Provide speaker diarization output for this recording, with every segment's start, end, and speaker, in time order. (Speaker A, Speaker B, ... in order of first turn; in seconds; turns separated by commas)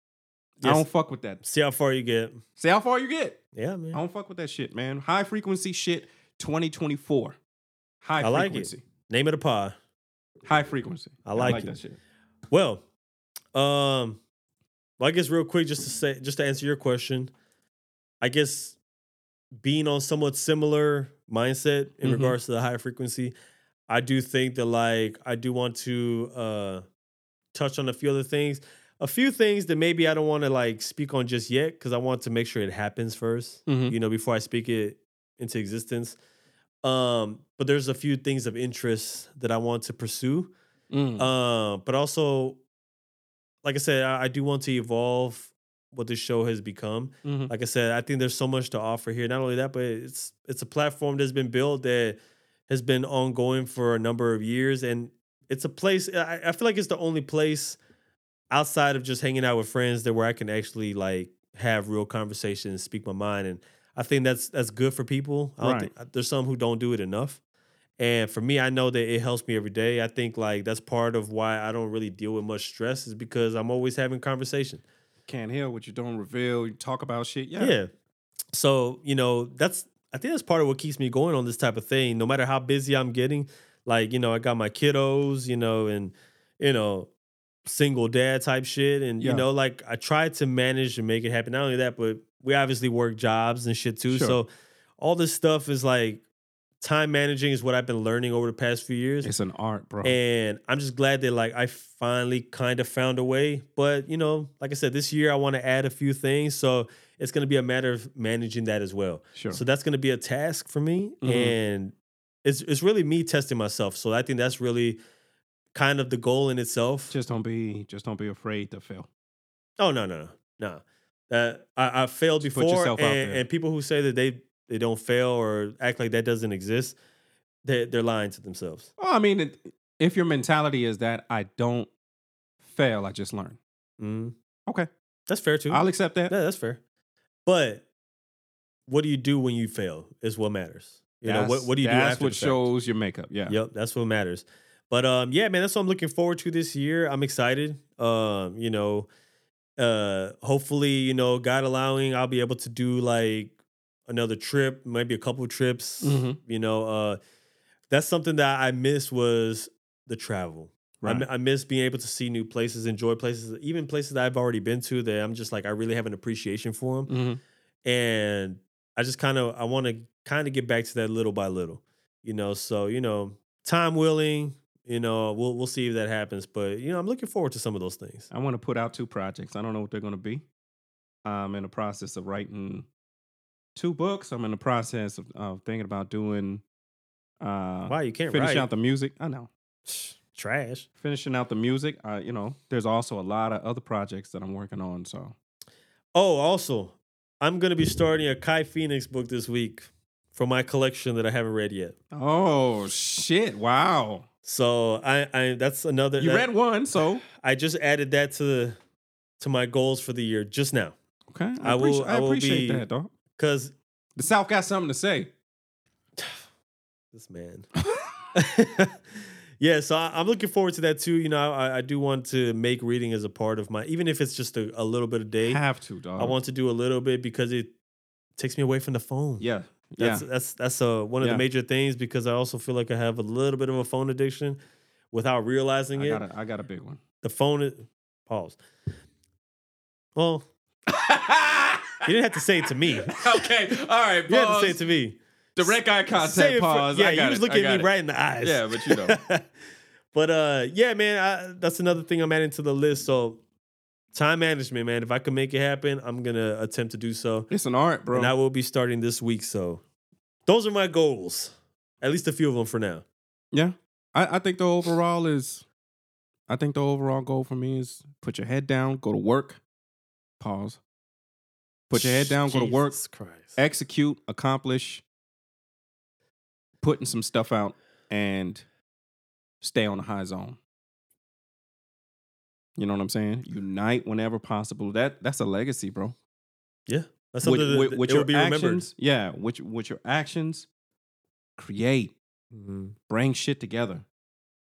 Speaker A: 0.6-0.9, Speaker B: 0.6-1.4, Speaker A: 1.4-2.4, Speaker B: 2.6-3.4, Speaker A: 3.5-4.0, Speaker B: 3.9-7.4, Speaker B: 8.0-8.8, Speaker A: 8.2-9.8, Speaker B: 10.4-12.0, Speaker A: 11.2-11.8, Speaker A: 12.5-12.8, Speaker A: 13.6-14.2, Speaker A: 15.0-17.3, Speaker A: 18.2-18.8, Speaker A: 19.6-23.3, Speaker B: 22.0-22.4, Speaker A: 23.9-26.9, Speaker A: 27.5-36.2, Speaker B: 33.7-34.0, Speaker A: 36.8-40.5, Speaker B: 40.9-41.3, Speaker A: 41.2-42.6, Speaker A: 43.6-57.8, Speaker B: 47.2-47.5, Speaker A: 58.5-67.4, Speaker B: 65.6-65.9, Speaker A: 68.0-74.8, Speaker B: 75.3-77.8, Speaker A: 77.6-77.9, Speaker A: 78.5-87.1, Speaker A: 87.7-96.2, Speaker B: 89.2-89.5, Speaker B: 94.1-94.4, Speaker A: 96.8-99.3, Speaker B: 99.2-100.2, Speaker A: 100.0-111.9, Speaker B: 109.3-109.6, Speaker B: 111.2-111.6, Speaker A: 112.5-115.0, Speaker A: 115.7-117.2, Speaker B: 117.1-119.1, Speaker A: 119.8-127.0, Speaker B: 122.4-123.4, Speaker A: 127.7-128.9, Speaker B: 129.0-131.9, Speaker B: 132.6-133.6, Speaker A: 134.0-134.3, Speaker A: 135.3-136.8, Speaker B: 135.7-136.3, Speaker A: 137.5-137.8, Speaker A: 138.9-142.7, Speaker B: 141.2-143.6, Speaker A: 143.5-149.1, Speaker A: 149.8-153.6, Speaker A: 154.1-157.2, Speaker B: 156.0-156.4, Speaker A: 157.9-167.1, Speaker B: 161.0-161.3, Speaker B: 167.1-167.4, Speaker A: 167.8-178.3, Speaker B: 178.3-180.4, Speaker B: 181.2-182.9, Speaker B: 183.8-186.6, Speaker B: 187.4-189.5, Speaker A: 187.9-188.7, Speaker A: 189.9-190.9, Speaker B: 191.0-195.3, Speaker A: 196.2-201.9, Speaker B: 202.1-204.3, Speaker A: 204.4-206.5, Speaker B: 206.2-207.2, Speaker A: 207.3-208.8, Speaker A: 209.4-210.9, Speaker B: 211.3-213.1, Speaker A: 211.6-212.8, Speaker A: 213.4-213.7, Speaker B: 214.2-215.3, Speaker A: 217.1-217.7, Speaker A: 218.3-225.6, Speaker B: 225.4-226.4, Speaker A: 226.2-227.7, Speaker A: 228.4-229.5, Speaker B: 229.4-230.2, Speaker A: 230.0-234.6, Speaker A: 235.1-236.2, Speaker B: 235.9-237.0, Speaker A: 237.2-238.6, Speaker A: 240.2-240.4, Speaker B: 240.9-242.1, Speaker A: 242.0-243.3, Speaker B: 243.1-244.8, Speaker A: 244.3-249.4, Speaker B: 245.6-249.2, Speaker A: 250.1-253.4, Speaker A: 254.1-257.5, Speaker B: 257.5-258.3, Speaker A: 258.1-259.8, Speaker A: 260.5-263.0, Speaker B: 263.5-265.6, Speaker B: 266.5-269.6, Speaker B: 270.4-270.8, Speaker B: 271.9-273.0, Speaker A: 271.9-273.6, Speaker B: 273.6-275.0, Speaker B: 276.8-278.6, Speaker B: 279.6-280.6, Speaker B: 282.8-286.1, Speaker A: 286.9-288.9, Speaker B: 287.4-290.7, Speaker B: 291.6-292.1, Speaker A: 292.5-292.9, Speaker B: 293.1-294.1